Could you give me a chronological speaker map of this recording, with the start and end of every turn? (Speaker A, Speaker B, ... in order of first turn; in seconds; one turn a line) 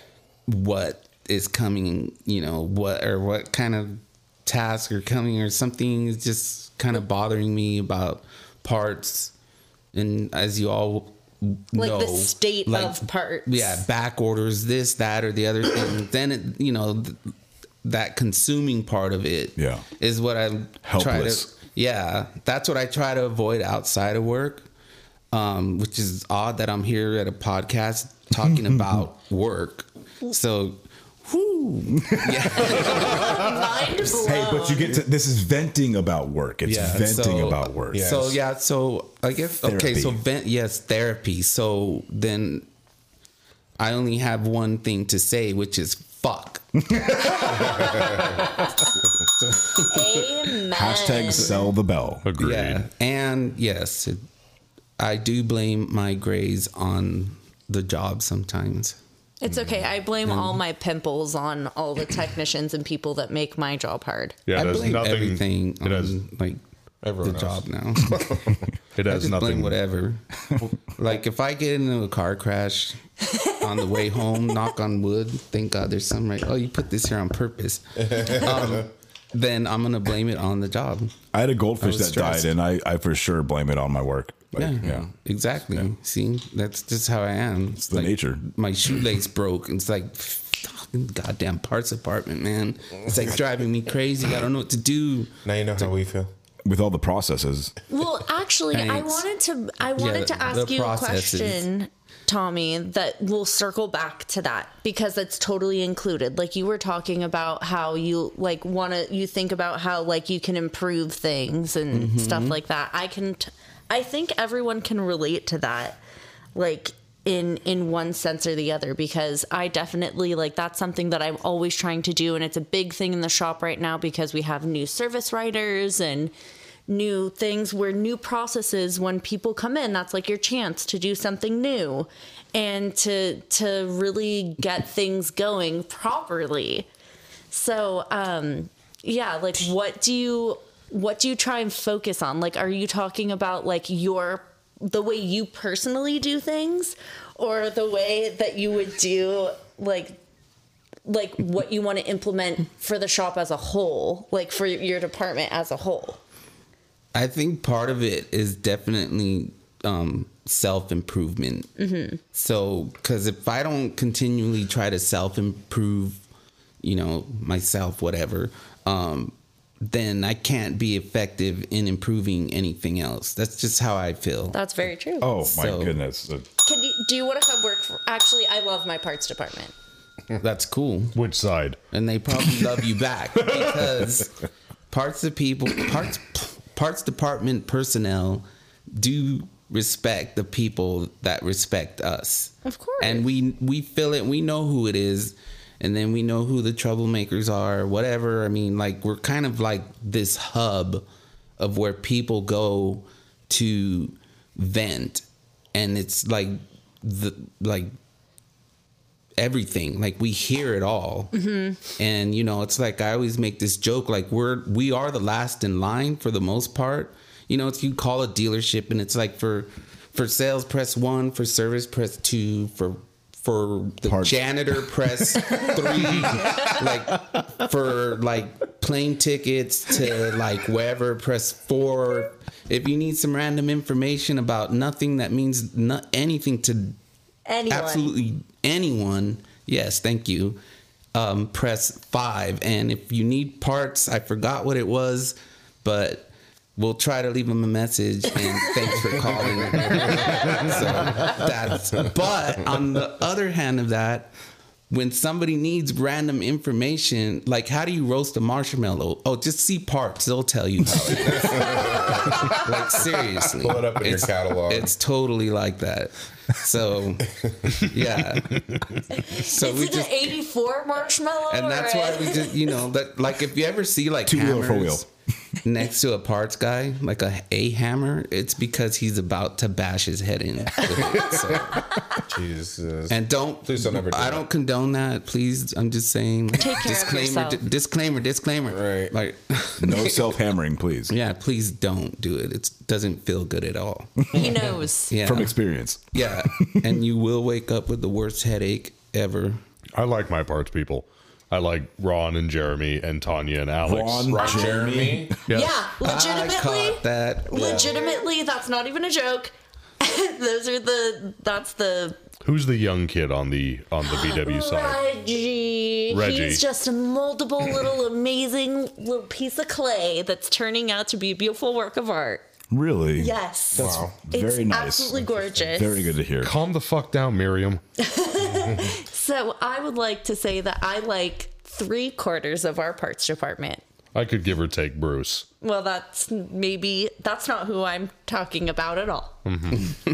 Speaker A: 0.5-9.3
Speaker A: 9.9-17.3
Speaker B: 11.7-13.8
Speaker A: 17.8-24.6
Speaker C: 19.6-19.8
Speaker C: 20.8-21.5
Speaker A: 25.3-33.6
Speaker C: 28.4-29.0
Speaker C: 32.0-33.0
Speaker B: 32.6-35.0
Speaker C: 34.1-38.1
Speaker A: 36.6-42.7
Speaker D: 37.9-38.4
Speaker C: 39.6-40.2
Speaker A: 43.8-50.4
Speaker B: 49.8-51.7
Speaker C: 50.7-52.2
Speaker E: 52.2-52.8
Speaker A: 52.4-54.2
Speaker A: 55.0-59.0
Speaker B: 59.4-64.4
Speaker A: 60.2-60.6
Speaker E: 64.5-66.2
Speaker A: 64.5-66.6
Speaker D: 67.0-68.6
Speaker A: 67.2-68.3
Speaker E: 69.0-69.8
Speaker A: 69.0-73.0
Speaker A: 73.6-81.1
Speaker D: 78.2-78.6
Speaker C: 81.3-85.0
Speaker A: 81.8-82.5
Speaker A: 84.5-95.9
Speaker C: 87.8-88.4
Speaker D: 95.4-96.3
Speaker C: 96.6-97.7
Speaker B: 97.9-116.0
Speaker A: 98.7-99.2
Speaker A: 100.0-101.7
Speaker A: 111.9-112.6
Speaker B: 116.5-126.3
Speaker B: 126.9-136.9
Speaker B: 137.5-150.2
Speaker B: 151.0-156.2
Speaker A: 157.1-166.2
Speaker B: 161.8-162.2
Speaker A: 166.8-174.6
Speaker B: 174.5-175.4
Speaker C: 175.2-176.5
Speaker A: 175.4-176.0
Speaker B: 176.6-179.7
Speaker A: 180.4-181.2
Speaker E: 181.1-181.8
Speaker A: 181.9-184.3
Speaker E: 182.4-182.6
Speaker E: 183.4-183.9
Speaker A: 184.9-201.1
Speaker B: 192.6-193.2
Speaker A: 201.6-207.9
Speaker A: 209.4-237.0
Speaker B: 211.3-211.8
Speaker C: 224.0-224.4
Speaker B: 237.4-238.1
Speaker A: 237.7-240.6
Speaker A: 241.1-254.3
Speaker D: 249.8-250.8
Speaker A: 254.9-268.6
Speaker D: 261.1-264.9
Speaker B: 261.4-262.6
Speaker B: 269.2-272.6
Speaker A: 269.3-270.4
Speaker A: 271.5-275.0
Speaker C: 274.2-275.1
Speaker A: 275.6-281.8
Speaker D: 280.9-281.6
Speaker D: 282.2-284.5
Speaker A: 283.1-290.2
Speaker B: 286.6-287.6
Speaker D: 288.7-289.1
Speaker C: 289.8-291.1
Speaker A: 291.1-294.4
Speaker B: 294.3-295.2
Speaker A: 295.1-295.6
Speaker C: 295.2-296.8
Speaker A: 296.1-299.6
Speaker E: 299.9-304.4
Speaker C: 303.8-305.3
Speaker D: 304.3-305.4
Speaker E: 305.5-305.7
Speaker B: 305.5-312.2
Speaker A: 306.0-307.9
Speaker D: 307.5-307.9
Speaker E: 312.4-315.0
Speaker B: 314.0-322.4
Speaker E: 316.1-316.6
Speaker C: 322.7-326.5
Speaker B: 323.1-326.0
Speaker D: 323.7-324.2
Speaker E: 326.4-327.8
Speaker B: 328.0-333.8
Speaker E: 334.1-335.4
Speaker B: 335.6-339.4
Speaker E: 339.4-339.9